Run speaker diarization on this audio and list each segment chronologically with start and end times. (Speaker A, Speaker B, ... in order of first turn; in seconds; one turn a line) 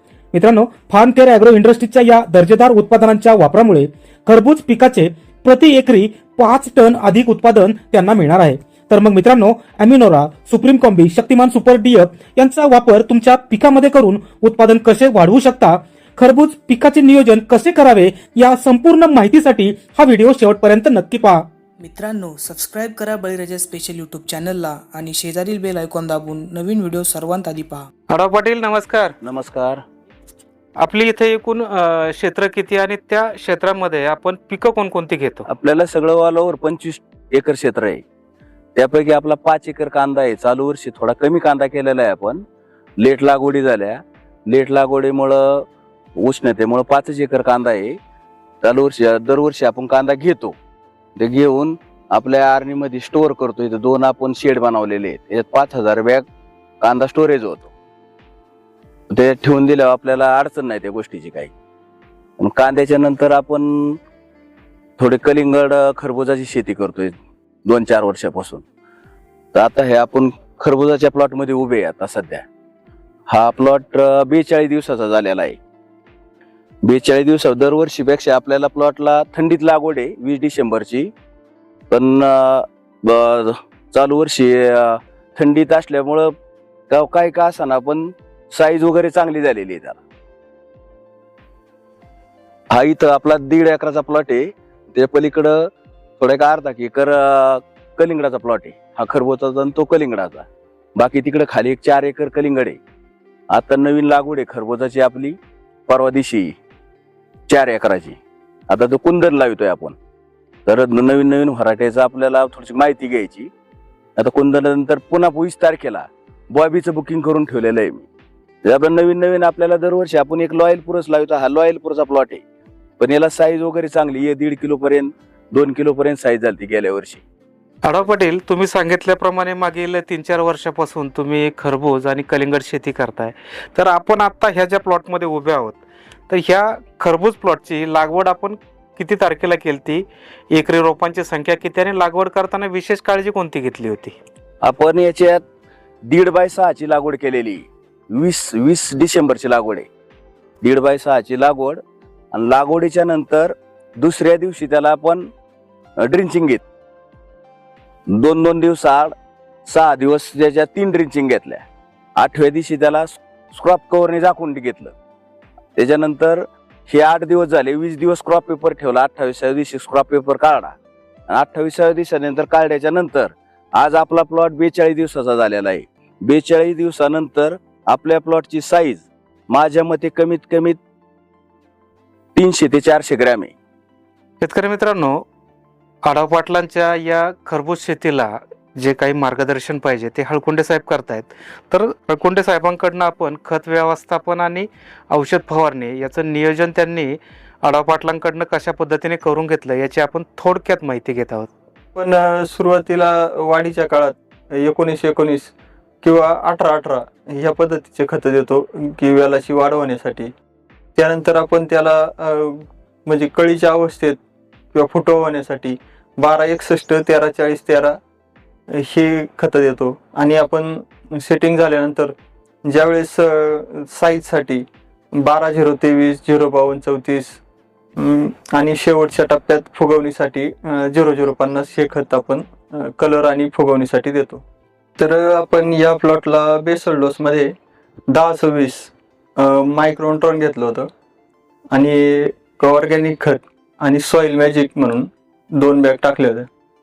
Speaker A: 0.3-21.4
Speaker B: 21.8-27.9
Speaker C: 28.1-29.1
Speaker D: 29.2-29.8
Speaker C: 30.8-35.5
Speaker D: 35.5-38.0
Speaker D: 38.8-42.4
Speaker D: 43.0-48.0
Speaker D: 48.6-50.5
Speaker D: 51.2-56.2
Speaker D: 56.8-57.7
Speaker D: 59.1-61.5
Speaker D: 62.4-64.0
Speaker D: 65.0-67.1
Speaker D: 67.7-68.6
Speaker D: 69.5-72.5
Speaker D: 73.3-75.6
Speaker D: 76.8-81.1
Speaker D: 81.9-86.3
Speaker D: 86.9-90.0
Speaker D: 92.7-95.7
Speaker D: 96.2-102.8
Speaker D: 103.5-106.5
Speaker D: 107.5-110.0
Speaker D: 110.7-113.5
Speaker D: 114.2-118.1
Speaker D: 118.6-122.4
Speaker D: 123.0-127.2
Speaker C: 127.8-144.2
Speaker D: 144.6-145.4
Speaker D: 146.0-149.9
Speaker D: 150.6-151.8
Speaker D: 152.3-155.3
Speaker D: 156.0-156.6
Speaker D: 158.1-159.1
Speaker D: 159.7-161.6
Speaker D: 162.2-164.9
Speaker D: 165.8-170.8
Speaker D: 171.3-180.8
Speaker D: 182.3-183.5
Speaker C: 184.4-185.2
Speaker C: 186.0-201.5
Speaker E: 201.9-210.3
Speaker E: 210.9-214.2
Speaker E: 214.7-218.0
Speaker E: 218.8-227.4
Speaker E: 228.0-234.4
Speaker E: 235.0-237.5
Speaker E: 238.1-240.9
Speaker E: 241.7-246.5